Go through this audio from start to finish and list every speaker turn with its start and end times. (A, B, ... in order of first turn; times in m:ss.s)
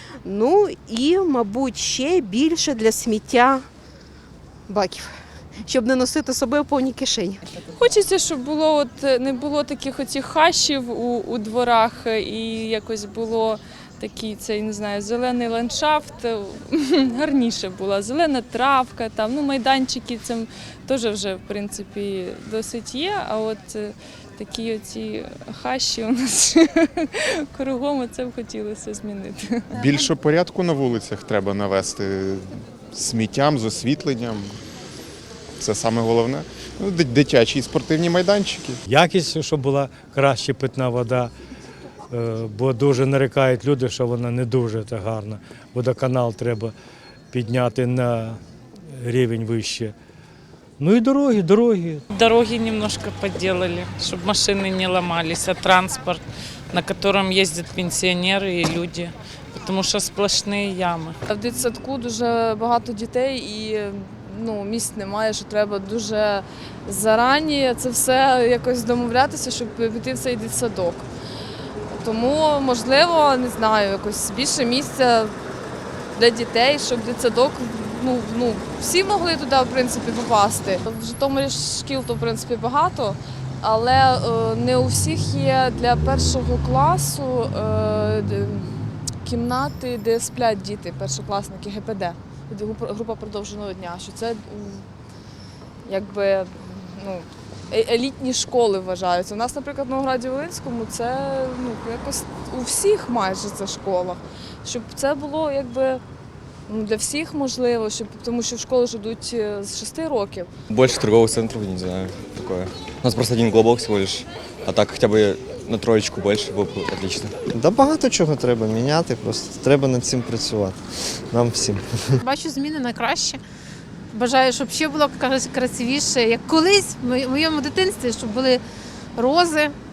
0:00.2-0:03.6 A
0:04.7-0:05.1 A
0:05.6-0:07.4 A
0:07.7-0:29.7 B
0:29.8-0:32.4 C
0:33.0-0:34.5 C
0:35.6-0:38.8 C
0:38.9-0:41.3 D
0:42.1-0:46.7 D
0:47.3-0:48.4 D
0:49.0-0:49.9 D
0:50.8-0:52.0 D
0:52.2-0:59.1 E
0:59.7-1:01.1 E
1:01.3-1:11.0 F
1:11.9-1:15.3 F
1:16.1-1:28.7 F
1:29.2-1:34.9 F
1:35.8-1:46.0 F
1:46.7-1:50.5 F
1:50.7-1:57.4 G
1:57.5-2:02.1 H
2:02.2-2:03.4 I
2:04.1-2:08.6 I
2:09.2-2:09.7 I